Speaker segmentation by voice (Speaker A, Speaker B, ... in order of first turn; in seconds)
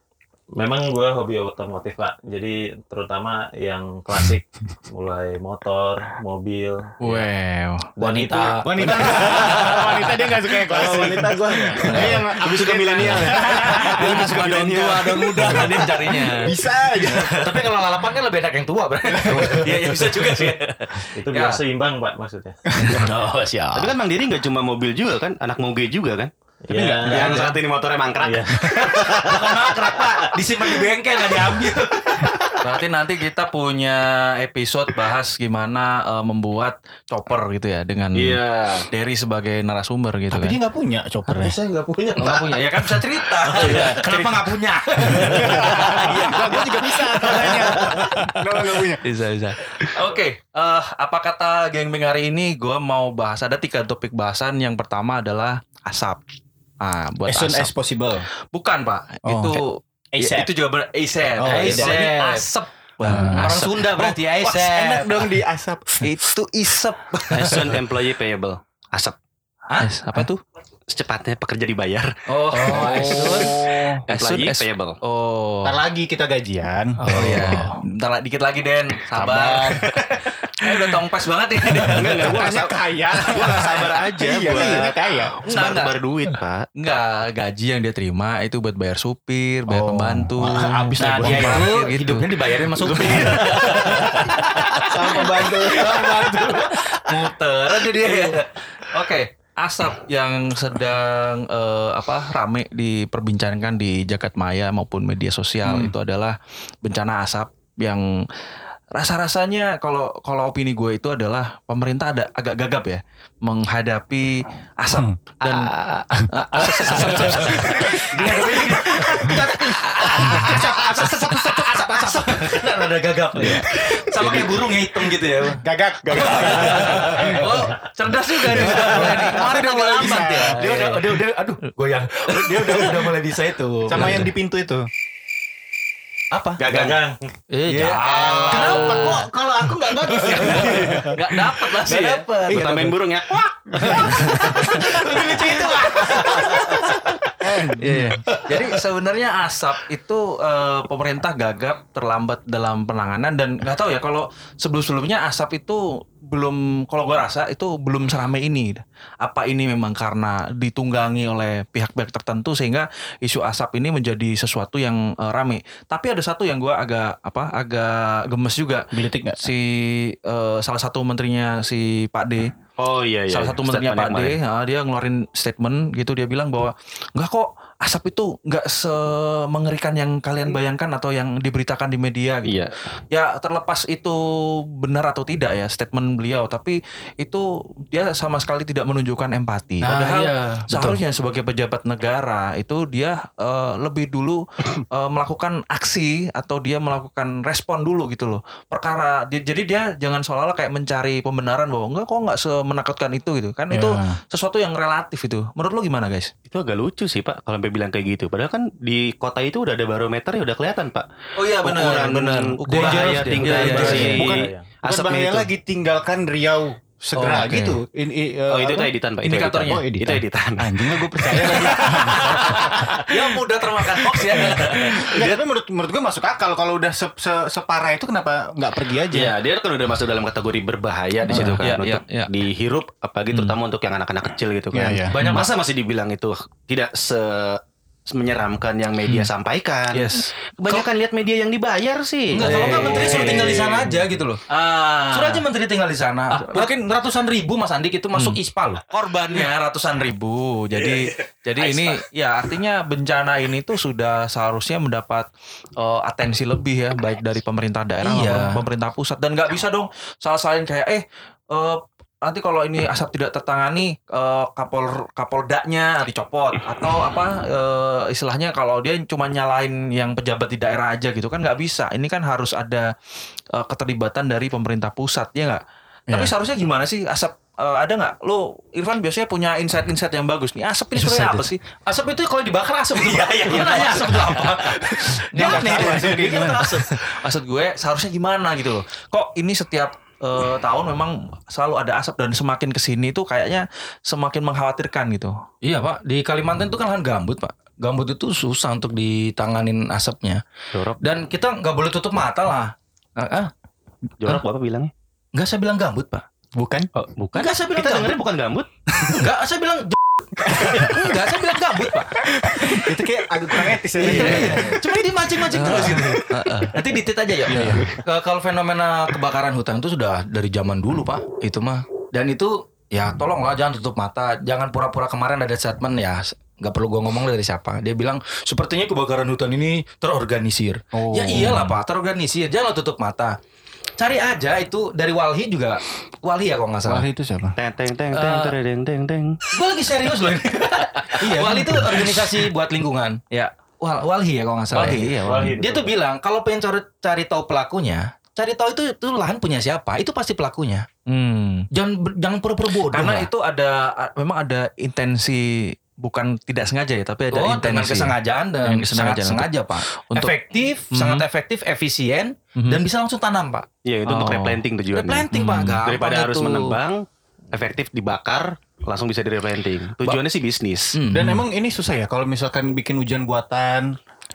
Speaker A: 0.5-7.2, 8.0-12.3, 21.1-22.6, 26.6-27.6, 28.2-28.7, 41.3-42.7, 43.5-44.0, 136.6-137.3, 213.8-214.7, 345.2-346.0
Speaker B: 7.0-7.9, 9.3-9.9, 13.2-17.5, 19.3-21.6, 27.1-27.6, 32.6-40.6, 42.2-56.2, 56.8-57.7, 58.5-64.2, 66.0-67.8, 69.8-70.4, 72.5-73.5, 74.1-75.8, 77.1-82.5, 85.5-86.0, 86.8-108.3, 108.9-120.6, 124.1-124.5, 126.3-131.0, 132.4-133.2, 137.7-139.3, 140.1-143.0, 144.0-147.2, 147.8-172.5, 173.3-182.6, 183.1-206.3, 211.4-214.3, 217.1-217.8, 219.2-219.9, 221.4-225.4, 231.3-232.3, 233.3-233.6, 239.1-239.3, 239.9-240.3, 242.4-243.9, 244.5-245.5, 246.3-246.7, 248.2-255.3, 255.8-272.9, 273.5-281.6, 283.0-295.4, 314.0-314.7, 315.5-316.8, 317.5-317.8, 344.7-345.6, 351.1-351.7, 352.9-360.3, 360.9-361.2, 364.1-364.6, 365.3-365.8
Speaker C: 8.0-9.4, 14.0-14.5, 15.2-16.4, 17.0-19.8, 22.8-24.0, 28.7-32.5, 43.4-46.5, 61.4-65.1, 72.3-73.6, 77.0-77.8, 91.0-97.0, 97.7-98.3, 115.4-116.1, 117.9-134.3, 136.3-136.6, 137.5-141.1, 144.2-146.9, 147.9-148.4, 189.8-191.0, 212.7-214.2, 235.1-235.5, 242.3-244.4, 245.1-248.8, 258.0-258.6, 281.0-286.9, 295.6-300.4, 301.0-303.5, 305.3-306.2, 307.3-308.2, 309.0-312.8, 314.0-333.4, 334.0-337.1, 338.1-338.5, 339.5-343.2, 343.8-350.9, 351.7-353.3, 357.3-363.7, 364.9-366.8, 370.9-371.4
Speaker D: 8.6-14.3, 15.4-17.6, 19.1-19.8, 22.8-23.0, 26.7-27.3, 40.3-41.6, 45.1-49.1, 57.2-58.3, 59.2-59.6, 60.1-60.5, 61.4-62.1, 63.0-63.6, 64.3-66.3, 72.5-74.0, 75.6-77.7, 79.1-79.9, 81.8-85.3, 89.7-91.7, 94.8-96.5, 105.6-105.9, 114.9-115.2, 116.1-118.4, 120.2-121.3, 125.5-127.7, 128.5-130.8, 133.9-134.9, 138.1-141.4, 143.7-144.5, 147.4-148.3, 168.9-169.5, 203.7-204.2, 213.8-218.9, 219.6-223.0, 224.5-229.4, 231.3-231.8, 234.7-235.2, 285.3-286.7, 306.6-306.9, 312.4-315.0, 315.7-316.0, 317.5-317.9, 330.9-331.8, 336.9-337.6, 371.1-374.0
Speaker E: 12.0-15.6, 22.9-23.1, 23.7-26.3, 27.0-30.2, 38.1-38.9, 67.3-69.2, 70.9-73.2, 74.1-75.0, 81.8-86.7, 136.6-137.0, 141.8-145.1, 172.8-174.4, 182.4-182.8, 206.5-211.1, 211.6-215.5, 218.5-223.0, 224.0-225.2, 229.1-243.8, 300.7-301.0, 304.2-304.9, 307.1-308.7, 337.6-339.4, 363.9-371.0